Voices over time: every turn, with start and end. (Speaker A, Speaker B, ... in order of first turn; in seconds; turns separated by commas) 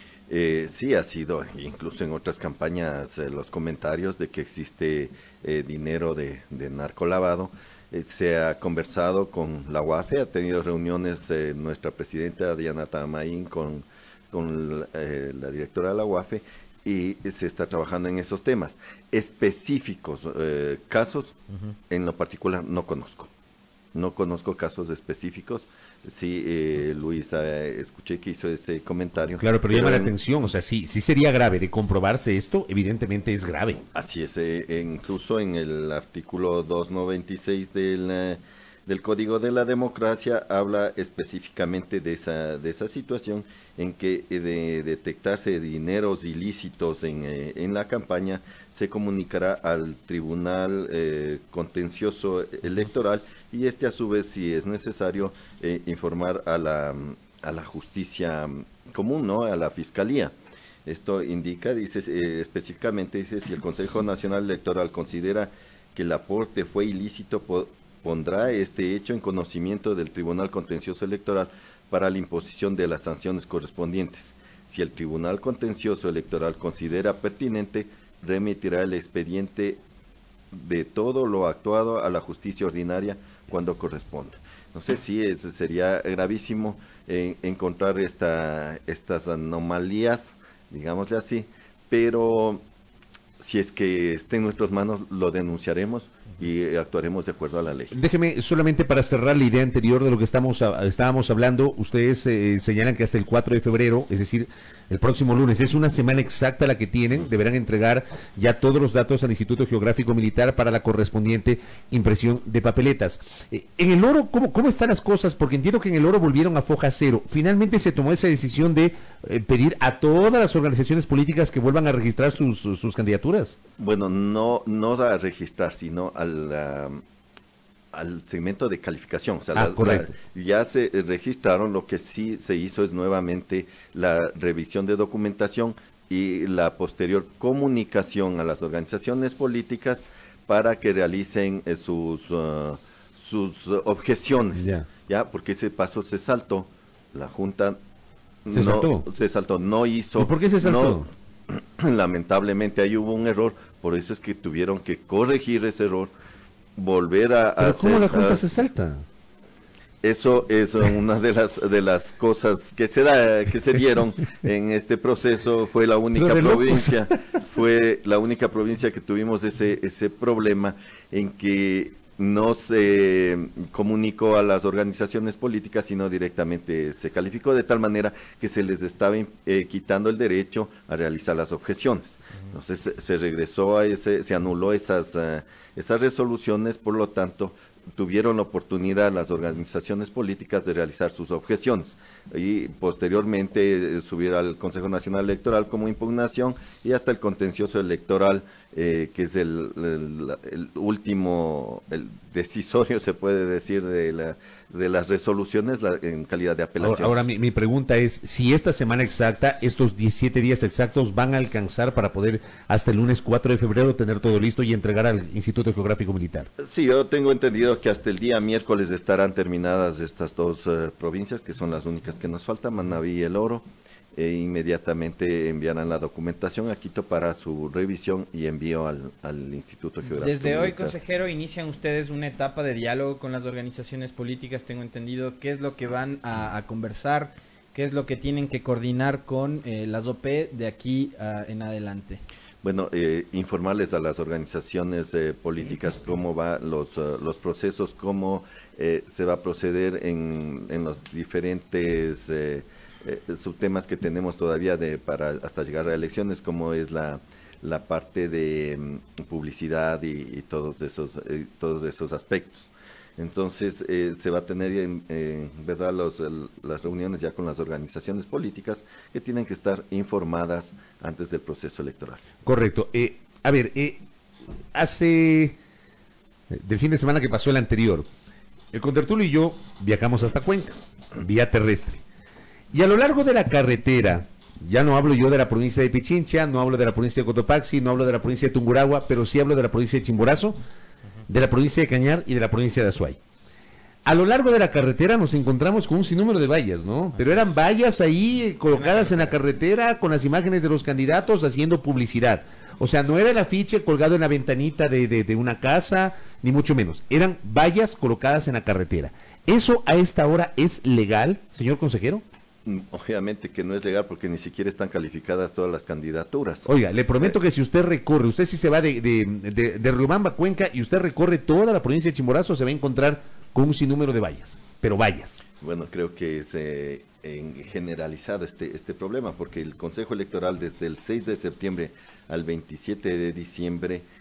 Speaker A: 0.3-21.4, Speaker A: 21.9-23.3, Speaker A: 23.9-30.1, Speaker B: 29.4-33.8, Speaker A: 34.0-60.4, Speaker A: 60.9-79.8, Speaker A: 80.5-92.7, Speaker A: 93.4-98.0, Speaker B: 97.9-123.6, Speaker A: 123.8-127.0, Speaker A: 127.9-147.8, Speaker B: 129.6-130.2, Speaker B: 144.6-144.9, Speaker A: 148.4-156.1, Speaker B: 148.5-149.1, Speaker B: 150.2-151.1, Speaker A: 156.8-158.7, Speaker B: 157.6-159.0, Speaker A: 160.0-207.3, Speaker B: 166.1-167.1, Speaker B: 206.8-216.5, Speaker A: 216.6-230.9, Speaker C: 230.2-242.2, Speaker A: 242.6-272.2, Speaker B: 272.4-274.0, Speaker B: 274.7-275.6, Speaker B: 276.5-278.1, Speaker B: 278.7-282.0, Speaker B: 282.7-290.6, Speaker B: 291.3-293.2, Speaker B: 294.1-312.2, Speaker C: 298.7-299.4, Speaker A: 312.7-317.4, Speaker B: 316.7-325.4, Speaker A: 325.6-334.1